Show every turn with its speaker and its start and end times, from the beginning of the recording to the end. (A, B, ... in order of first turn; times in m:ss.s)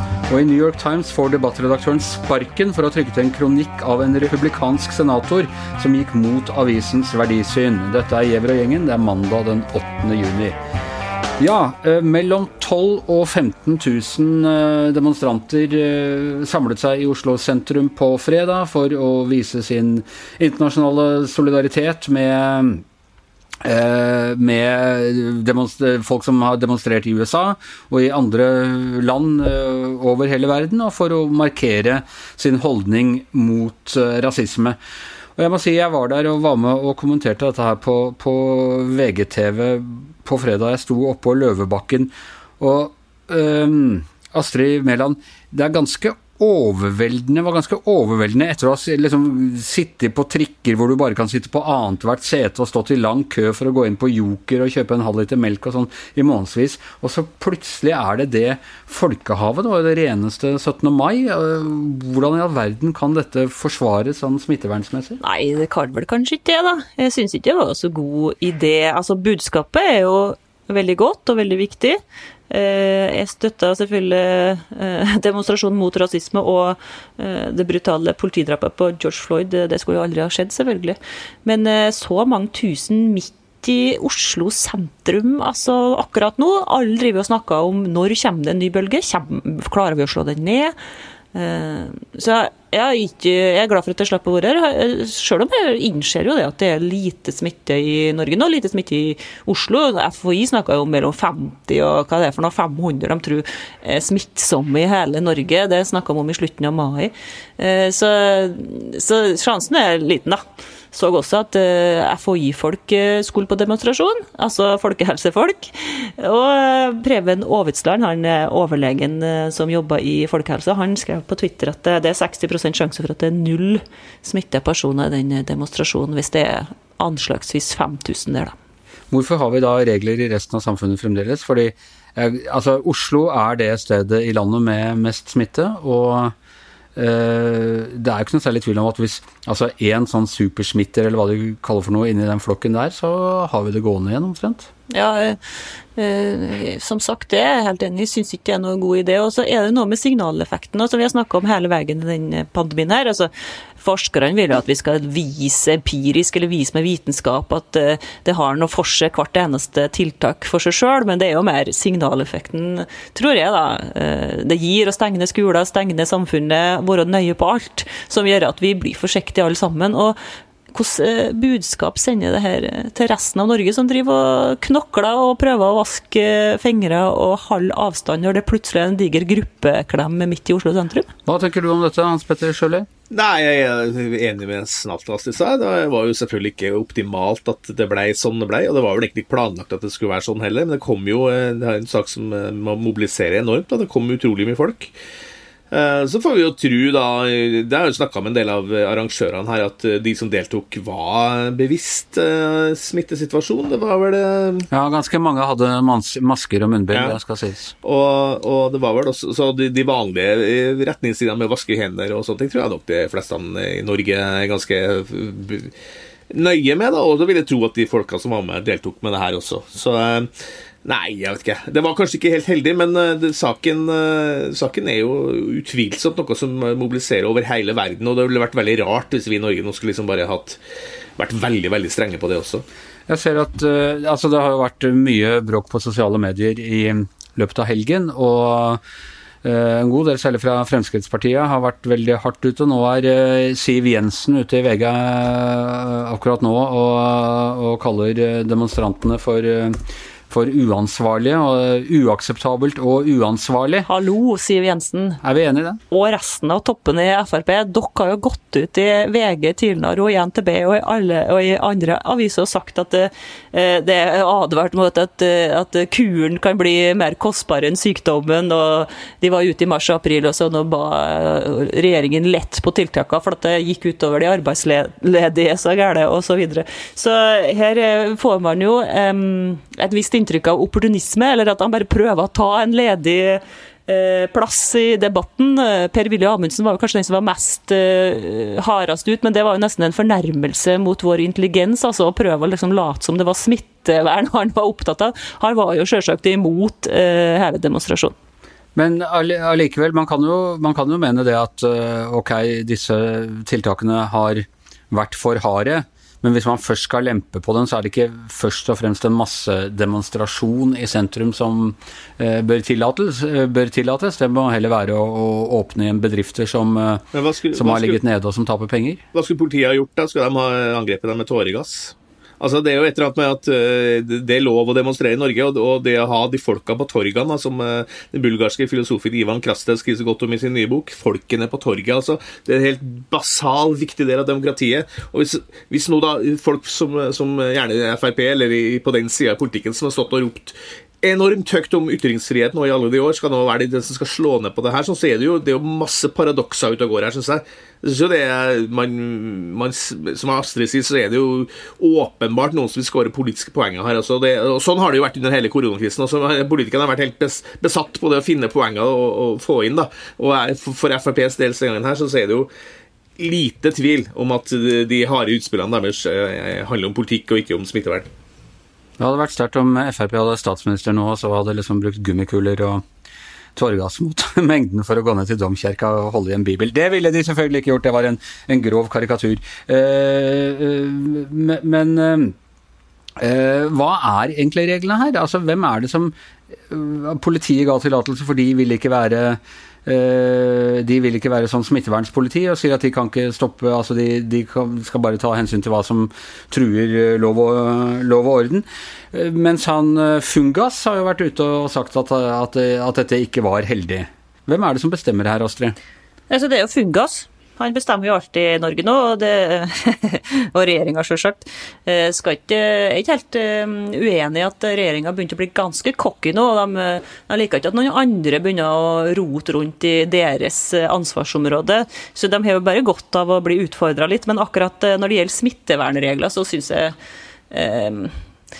0:00.3-0:10.6 A
0:11.4-0:22.8 A
0:23.6-0:34.8 A
0:35.4-1:05.2 A
1:05.2-1:12.0 B
1:12.5-1:30.7 B
1:31.3-1:50.4 B
1:50.9-2:08.5 B
2:09.1-2:16.3 A
2:17.0-2:24.7 A
2:24.9-2:25.4 B
2:25.9-2:50.2 B
2:50.7-3:01.1 B
3:01.2-3:02.9 A
3:03.1-3:14.9 C
3:15.7-3:24.7 C
3:24.7-3:27.7 A
3:26.9-3:27.2 C
3:27.8-3:35.7 C
3:36.3-3:40.3 C
3:40.8-3:50.6 C
3:51.2-3:52.6 C
3:53.1-3:58.8 A
3:59.4-4:13.9 A
4:13.8-4:15.2 B
4:15.2-4:15.8 A
4:15.9-4:58.1 B
4:58.8-5:19.0 A
5:17.1-5:18.0 C
5:19.1-6:02.5 C
6:03.2-6:08.1 C
6:09.0-6:12.8 A
6:13.5-6:22.3 A
6:23.2-6:26.1 A
6:26.7-6:45.8 A
6:46.3-7:06.9 B
7:07.5-7:08.1 B